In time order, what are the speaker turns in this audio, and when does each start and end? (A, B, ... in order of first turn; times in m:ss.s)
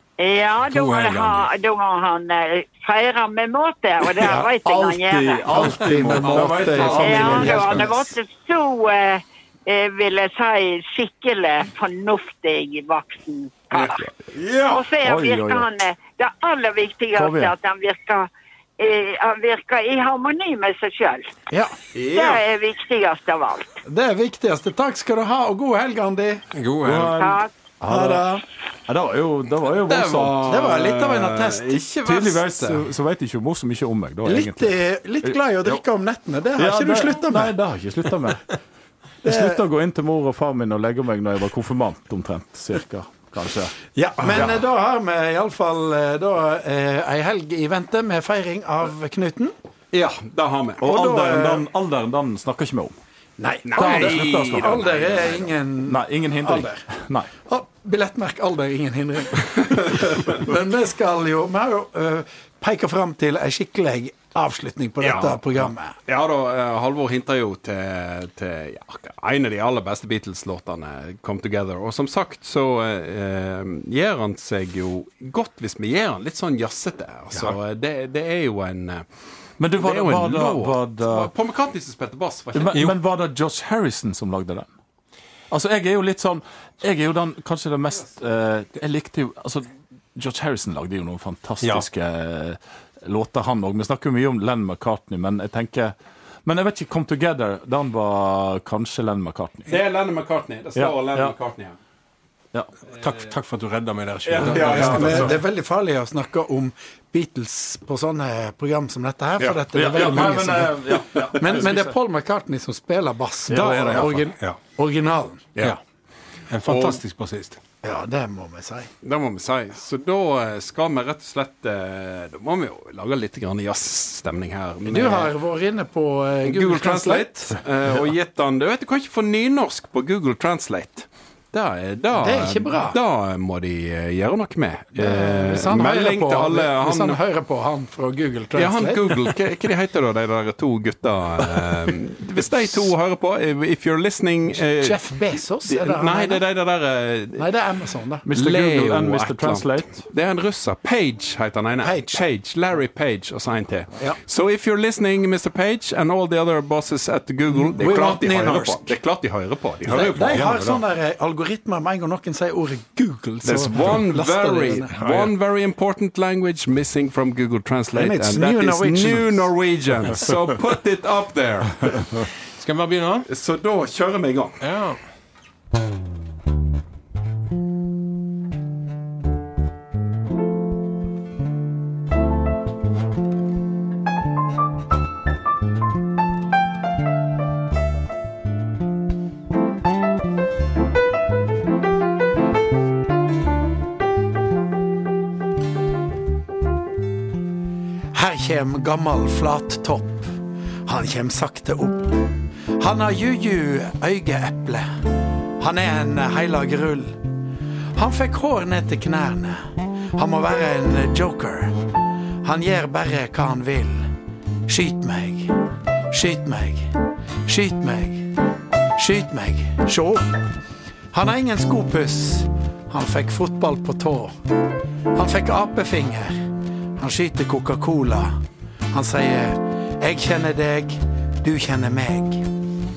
0:00.2-0:05.7 A
0:00.6-0:01.5 B
0:04.2-0:04.5 C
0:04.6-0:07.9 D
0:05.5-0:08.0 C
0:06.2-0:07.1 E
0:07.0-0:14.0 A
0:13.7-0:14.9 E
0:14.7-0:21.3 A
0:15.0-0:15.7 D
0:17.1-0:17.5 D
0:21.5-0:21.8 C
0:21.9-0:22.4 E
0:22.1-0:23.8 A
0:23.8-0:26.4 C
0:26.5-0:27.2 B
0:26.8-0:28.3 D
0:27.2-0:27.5 A
0:27.9-0:28.4 C
0:28.9-0:30.4 D
0:29.7-0:32.8 E
0:30.4-0:31.8 C
0:32.0-0:35.8 D
0:34.2-0:37.5 C
0:36.6-0:38.5 D
0:39.2-0:39.6 C
0:39.2-0:44.6 D
0:43.9-0:49.5 C
0:49.9-0:50.8 E
0:50.8-0:52.9 D
0:50.8-0:51.6 C
0:53.4-0:56.8 C
0:53.6-0:55.3 E
0:53.7-0:55.3 D
0:55.8-0:57.3 D
0:57.4-1:05.9 C
1:05.0-1:19.0 E
1:19.6-1:21.3 D
1:19.7-1:22.8 E
1:22.5-1:24.7 D
1:25.5-1:39.7 D
1:39.7-1:41.8 E
1:40.8-1:41.3 D
1:42.9-1:45.4 B
1:44.2-1:45.3 D
1:44.3-1:45.3 E
1:44.8-1:55.5 C
1:49.7-1:51.9 D
1:51.1-1:51.6 E
1:53.5-1:54.6 B
1:56.5-1:57.6 B
1:56.6-1:57.0 E
1:57.8-1:58.9 C
1:59.0-2:05.3 E
2:04.9-2:07.6 C
2:06.4-2:17.2 E
2:12.2-2:13.0 C
2:14.9-2:19.3 C
2:18.5-2:27.4 E
2:24.8-2:26.4 C
2:27.4-2:28.2 C
2:28.2-2:30.0 D
2:28.3-2:40.5 E
2:31.8-2:32.2 C
2:37.7-2:39.0 C
2:39.8-2:45.0 C
2:40.2-2:40.8 B
2:43.4-2:52.2 E
2:45.0-2:45.3 B
2:47.9-2:49.5 C
2:52.6-2:53.3 B
2:53.3-2:54.6 E
2:54.6-2:55.0 B
3:18.1-3:20.3 C
3:20.8-3:22.1 C
3:22.8-3:24.9 C
3:25.6-3:27.2 C
3:27.9-3:31.8 C
3:32.4-3:34.1 C
3:34.7-3:35.5 C
3:36.1-3:36.9 C
3:37.4-3:38.3 C
3:39.0-3:40.3 C
3:41.1-3:44.3 C
3:45.1-3:46.4 C
3:47.0-3:48.3 C
3:48.9-3:52.4 C